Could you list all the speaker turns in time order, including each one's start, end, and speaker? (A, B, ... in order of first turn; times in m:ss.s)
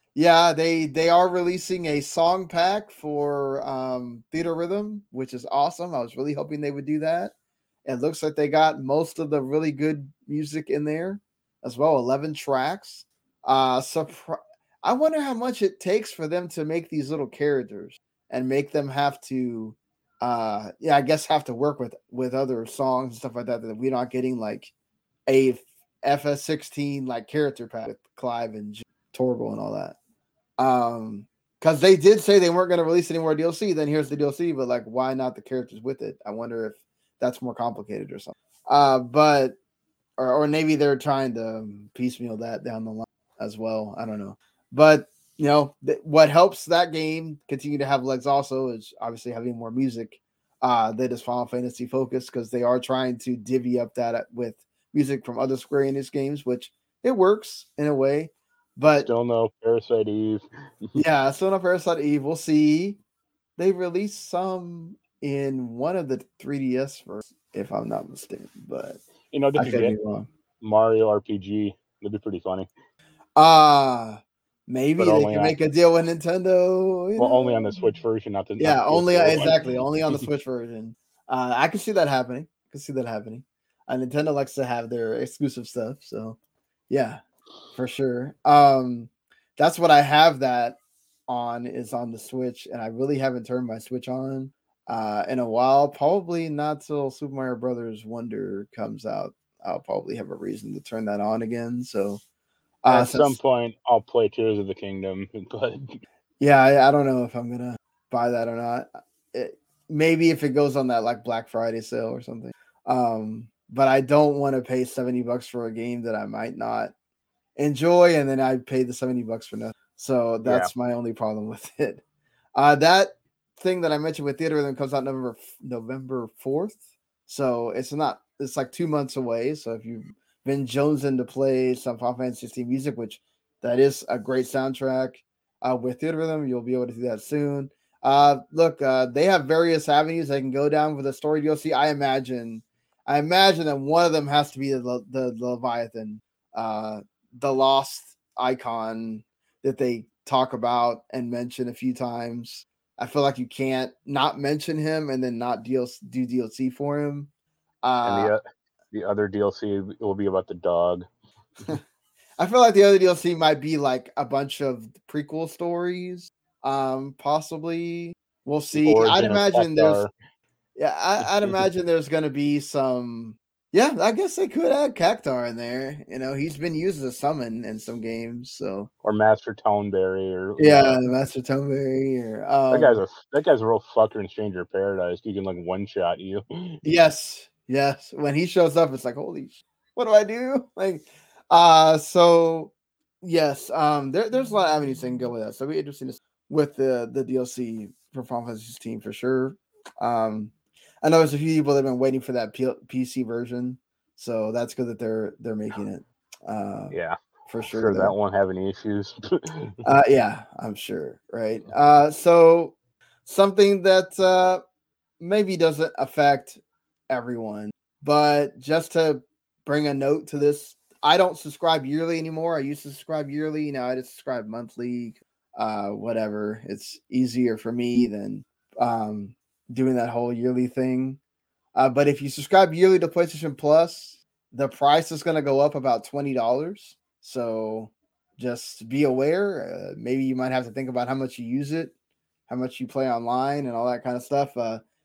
0:00.1-0:07.3 A
0:07.8-0:24.7 A
0:25.3-0:30.0 A
0:30.6-0:39.6 A
0:40.2-0:59.1 A
0:59.0-1:01.0 B
1:00.9-1:03.0 A
1:03.6-1:09.0 A
1:09.3-1:09.9 B
1:09.6-1:10.3 A
1:10.6-1:12.7 B
1:13.4-1:17.7 A
1:15.0-1:15.5 B
1:17.2-1:19.6 B
1:18.6-1:26.4 A
1:26.9-1:27.2 A
1:27.7-1:30.8 A
1:31.3-1:42.2 A
1:42.8-1:43.4 A
1:42.9-1:46.0 B
1:46.4-1:56.9 A
1:57.6-2:02.0 A
2:00.4-2:00.7 B
2:02.5-2:06.8 A
2:07.3-2:37.3 A
2:37.8-2:38.3 A
2:38.0-2:41.0 B
2:42.4-2:50.0 A
2:48.7-2:50.1 B
2:50.8-2:58.9 A
2:51.2-2:51.6 B
2:59.0-3:01.0 B
3:00.6-3:03.0 A
3:02.7-3:06.8 B
3:06.8-3:20.5 A
3:21.0-3:28.1 A
3:26.9-3:27.2 B
3:27.7-3:29.7 B
3:29.8-3:34.6 A
3:35.2-3:36.6 A
3:37.1-3:51.2 A
3:51.7-4:01.9 A
4:02.5-4:04.8 A